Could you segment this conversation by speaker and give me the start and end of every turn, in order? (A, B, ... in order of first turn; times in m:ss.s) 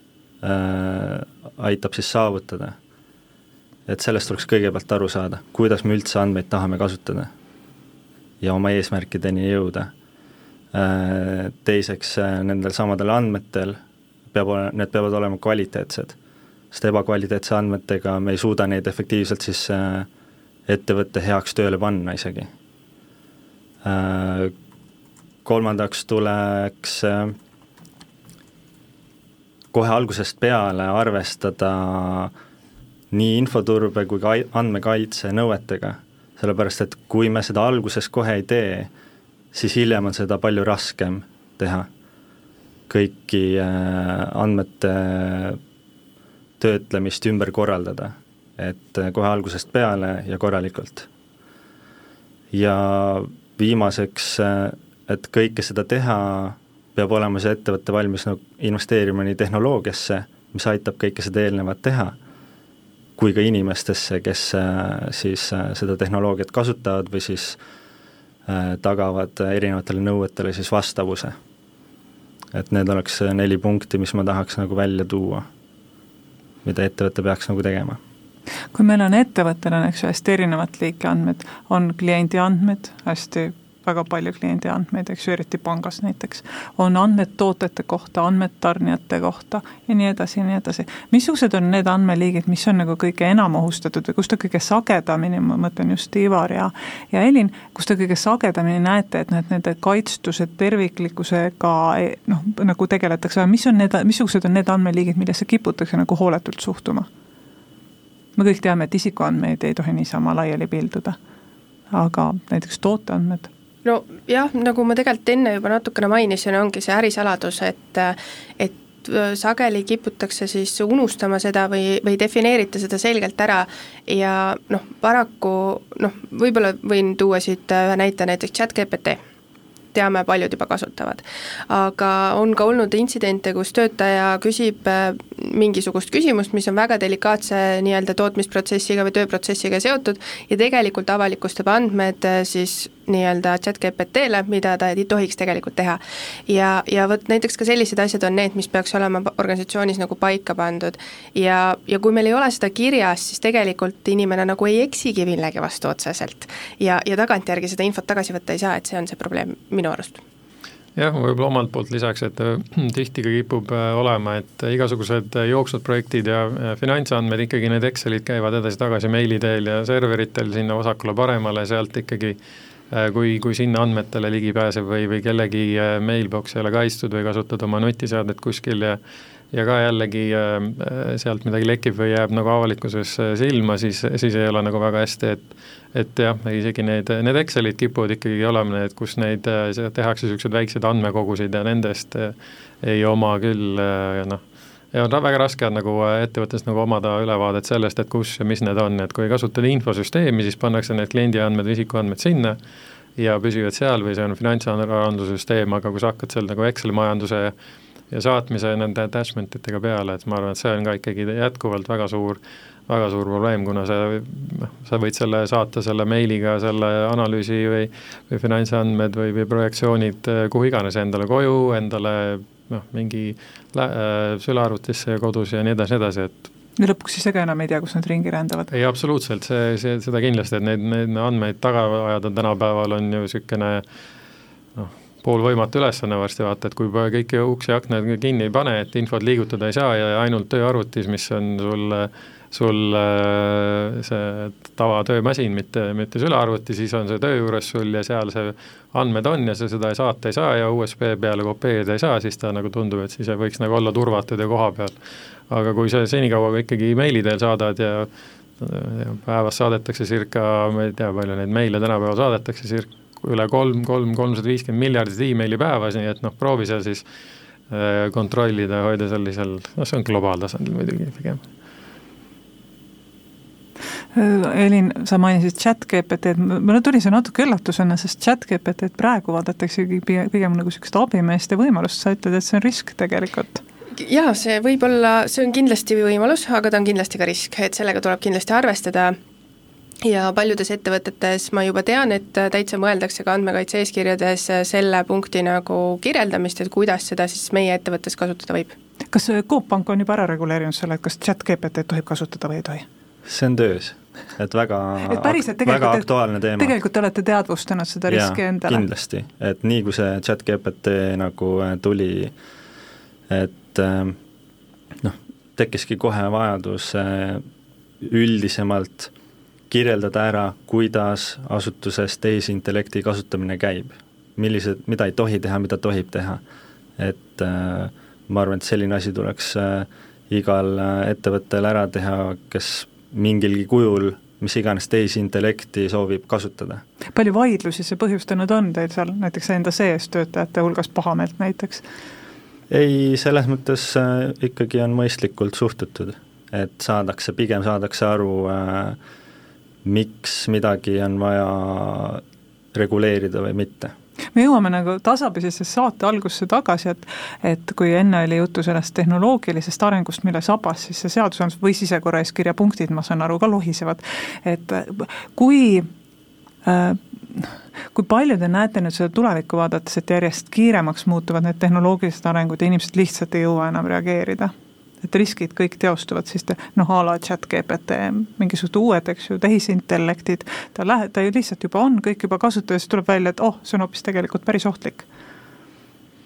0:00.4-0:02.8 A
0:03.9-0:07.3 A
0:08.4-0:09.9 A
0:10.7-0:13.8 A
0:14.3-0:16.2 A
0:16.7-0:20.1 A
0:20.7-0:22.5 A
0:23.8-0:24.5 A
0:25.4-0:27.3 A
0:29.7-0:32.3 A
0:33.1-0:38.9 A
0:39.5-0:41.9 A
0:42.9-0:45.6 A
0:46.6-0:51.1 A
0:52.5-1:02.2 A
1:03.2-1:07.6 A
1:08.5-1:11.4 A
1:12.5-1:15.5 A
1:16.6-1:18.0 A
1:18.7-1:47.1 B
1:48.4-1:51.2 B
1:51.9-1:53.5 B
1:53.8-2:09.2 C
2:09.9-2:40.2 C
2:41.0-2:52.4 D
2:52.9-2:59.0 D
2:59.5-3:14.4 D
3:14.9-3:22.6 D
3:23.2-3:27.5 D
3:28.1-3:46.5 D
3:46.8-3:48.7 B
3:48.7-3:53.8 D
3:54.8-4:14.9 D
4:15.5-4:18.1 D
4:18.6-4:27.0 D
4:27.7-4:31.4 D
4:34.1-4:43.6 B
4:44.0-4:49.1 C
4:50.0-4:58.7 C
4:59.1-5:02.8 B
5:03.2-5:06.7 A
5:05.0-5:08.8 B
5:08.1-5:12.3 A
5:13.3-5:14.2 A
5:15.0-5:17.4 A
5:18.0-5:19.1 A
5:19.7-5:26.4 A
5:27.0-5:36.8 A
5:37.1-5:41.8 B
5:42.7-5:49.0 A
5:49.8-5:52.2 A
5:52.7-5:53.9 A
5:54.3-6:05.9 B
6:06.6-6:14.5 B
6:15.0-6:25.0 B